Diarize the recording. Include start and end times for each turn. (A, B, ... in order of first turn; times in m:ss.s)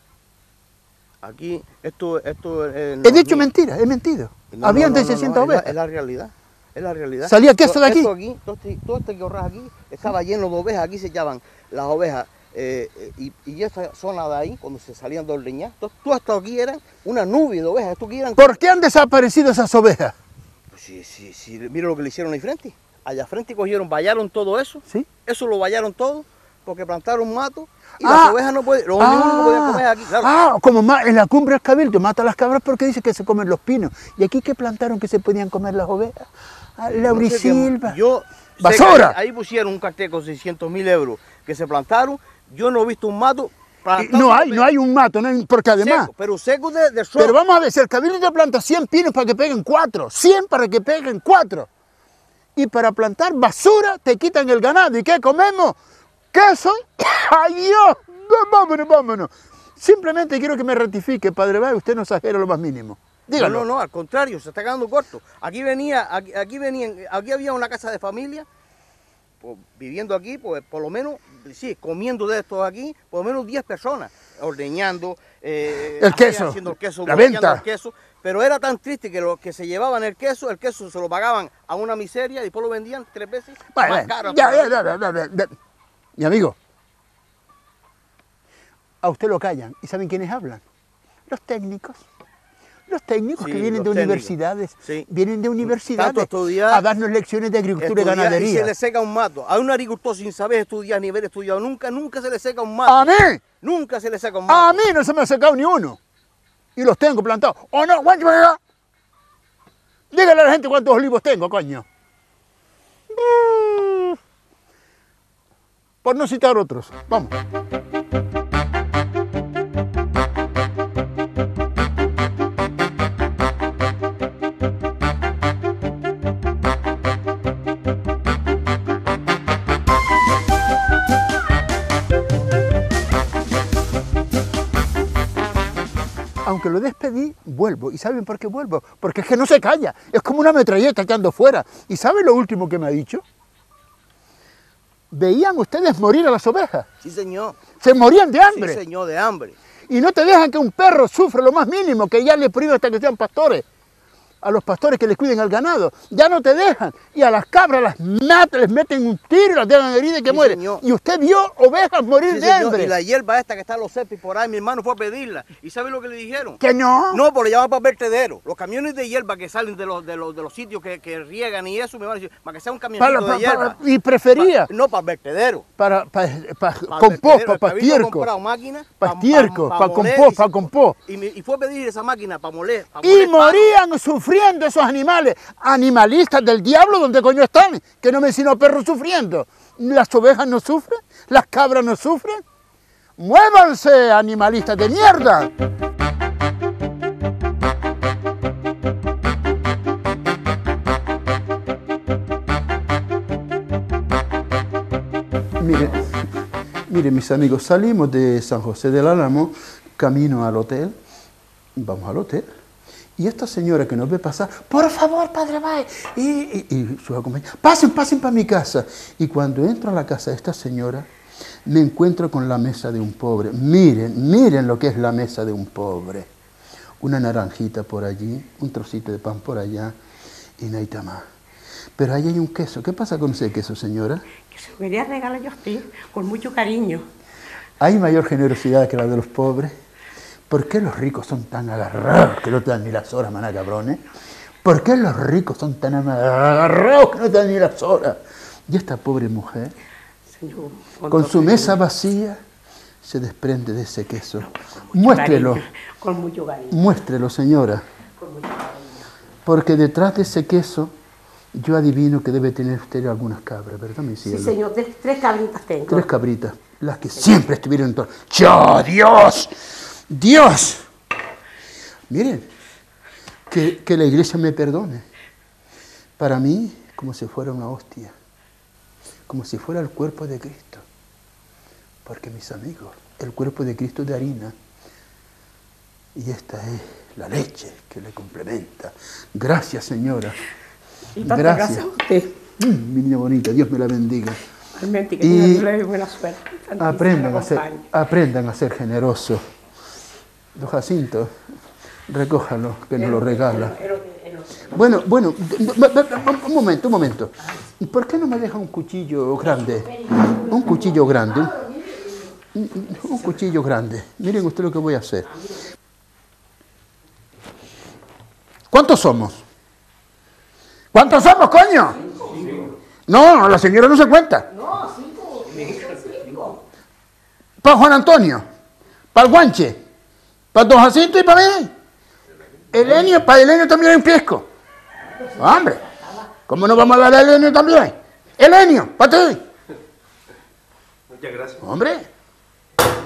0:01.2-0:03.5 A
0:03.0-0:05.7 B
0:04.5-0:18.6 A
0:07.2-0:08.1 B
0:18.4-0:20.2 B
0:20.7-0:30.3 A
0:28.0-0:28.4 B
0:29.0-0:38.0 B
0:36.9-0:44.6 A
0:38.6-0:39.2 B
0:44.0-0:46.1 B
0:45.8-0:47.4 A
0:47.2-0:51.7 B
0:52.5-0:55.8 B
0:56.3-1:03.6 B
1:03.3-1:08.5 A
1:09.4-1:24.8 A
1:16.0-1:17.6 B
1:23.7-1:25.6 B
1:26.2-1:26.6 B
1:29.0-1:30.6 B
1:31.3-1:32.0 B
1:32.9-1:38.7 B
1:33.4-1:34.3 A
1:35.8-1:36.8 A
1:37.8-1:44.8 A
1:42.8-1:43.4 B
1:44.5-1:46.0 B
1:46.8-1:48.6 B
1:50.1-1:51.8 B
1:53.1-1:54.2 B
1:56.0-1:57.3 B
2:16.4-2:23.2 B
2:25.1-2:26.9 B
2:27.0-2:27.6 A
2:27.8-2:28.8 B
2:28.5-2:29.6 A
2:29.9-2:33.6 B
2:34.4-2:42.9 B
2:40.3-2:40.8 A
2:42.3-2:46.6 A
2:46.6-2:47.2 B
2:47.1-2:53.8 A
2:53.0-2:54.7 B
2:54.4-2:55.6 A
2:55.8-2:58.3 B
2:56.9-3:00.5 A
2:59.0-3:01.0 B
3:01.0-3:03.7 A
3:03.0-3:12.4 B
3:13.2-3:15.5 B
3:25.6-3:26.1 B
3:26.9-3:31.0 B
3:31.7-3:32.5 B
3:33.2-3:41.1 B
3:41.6-3:46.3 B
3:47.0-3:50.0 B
3:50.6-3:51.2 B
3:52.0-3:54.2 B
3:54.5-3:57.0 C
3:57.8-3:59.7 B
4:00.5-4:04.0 B
4:04.6-4:09.7 B
4:10.3-4:11.8 C
4:11.1-4:12.4 B
4:13.0-4:15.6 B
4:14.9-4:16.9 C
4:16.7-4:17.8 B
4:18.2-4:19.1 C
4:19.4-4:20.9 B
4:21.5-4:24.6 B
4:24.2-4:26.0 C
4:25.8-4:29.5 B
4:30.1-4:30.8 B
4:32.1-4:32.5 B
4:33.5-4:35.0 B
4:36.2-4:38.1 B
4:39.3-4:40.8 B
4:42.0-4:44.5 B
4:46.1-4:50.4 B
4:51.2-4:52.4 C
4:51.2-4:51.9 B
4:52.6-4:54.4 B
4:54.7-4:57.8 C
4:55.2-4:55.7 B
4:56.8-4:59.4 B
5:00.5-5:01.3 B
5:02.1-5:03.8 B
5:03.0-5:04.6 C
5:04.7-5:11.6 B
5:09.8-5:12.3 C
5:12.5-5:15.4 B
5:18.7-5:19.4 B
5:20.9-5:22.0 B
5:22.1-5:22.6 C
5:23.1-5:24.5 B
5:24.5-5:26.6 C
5:27.6-5:28.4 B
5:29.1-5:29.8 B
5:30.5-5:31.7 B
5:32.7-5:34.5 B
5:35.4-5:35.8 B
5:36.5-5:39.4 B
5:41.6-5:42.1 B